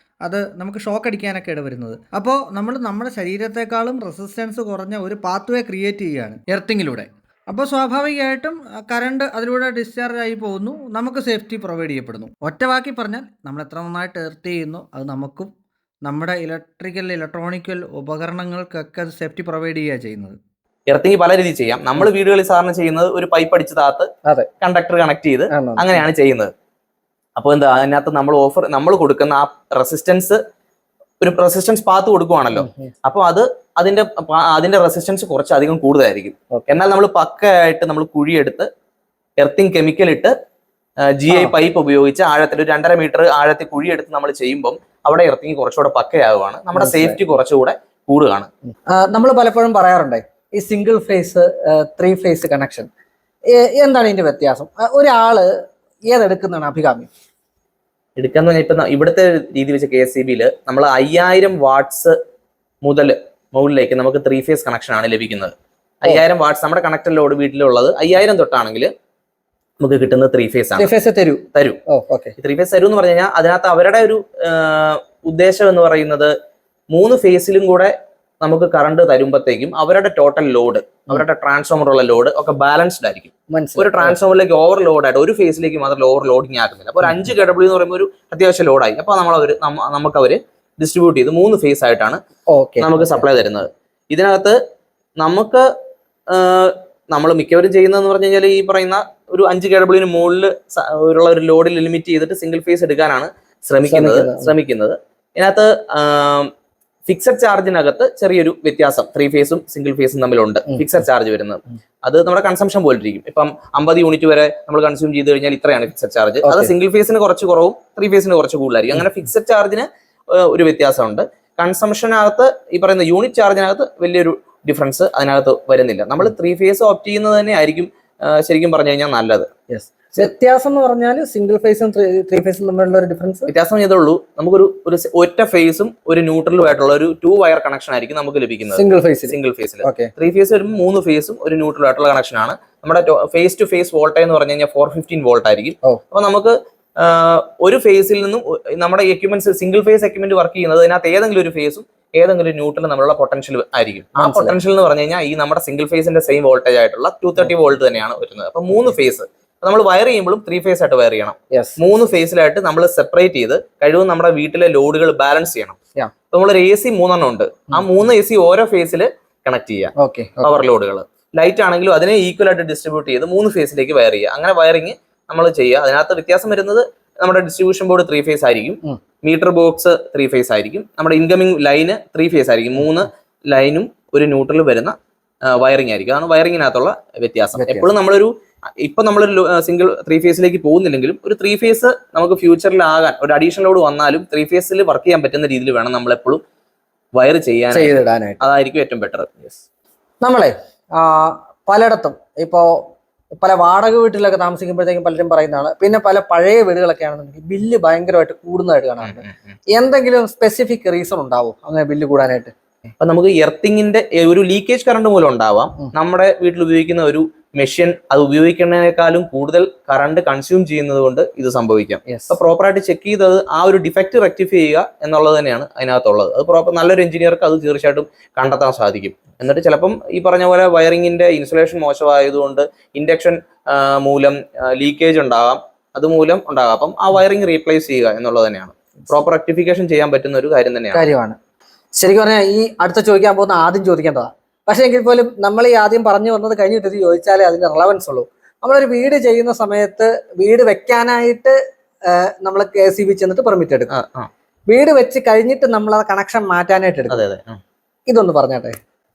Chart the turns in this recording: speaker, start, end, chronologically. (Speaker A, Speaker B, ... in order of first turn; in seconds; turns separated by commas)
Speaker A: 0.2-15.5, Speaker A: 16.0-20.4, Speaker B: 20.9-24.1, Speaker B: 24.6-26.5, Speaker C: 25.5-26.0, Speaker B: 27.4-30.4, Speaker B: 31.2-38.7, Speaker C: 32.5-32.9, Speaker B: 39.4-40.3, Speaker B: 41.0-48.5, Speaker C: 46.8-47.2, Speaker C: 48.9-52.9, Speaker C: 53.5-57.1, Speaker B: 58.2-62.2, Speaker B: 62.8-68.9, Speaker B: 69.8-70.9, Speaker C: 70.8-72.3, Speaker B: 71.5-71.8, Speaker B: 72.4-76.3, Speaker B: 76.9-92.2, Speaker C: 83.5-84.2, Speaker C: 92.5-93.4, Speaker B: 92.8-94.6, Speaker B: 95.2-95.7, Speaker B: 96.3-106.5, Speaker C: 103.9-104.5, Speaker B: 107.0-129.5, Speaker C: 116.4-116.7, Speaker C: 129.7-133.5, Speaker B: 133.5-165.8, Speaker C: 138.7-140.1, Speaker C: 154.2-154.5, Speaker B: 166.3-184.9, Speaker C: 170.0-170.5, Speaker B: 185.5-196.4, Speaker C: 187.6-187.9, Speaker B: 197.1-199.6, Speaker C: 197.7-198.5, Speaker C: 200.2-212.5, Speaker B: 209.0-209.3, Speaker B: 213.0-241.0, Speaker C: 222.1-222.3, Speaker C: 240.9-241.4, Speaker C: 242.0-253.9, Speaker B: 253.9-254.3, Speaker C: 254.7-257.2, Speaker B: 257.1-257.6, Speaker C: 258.1-258.8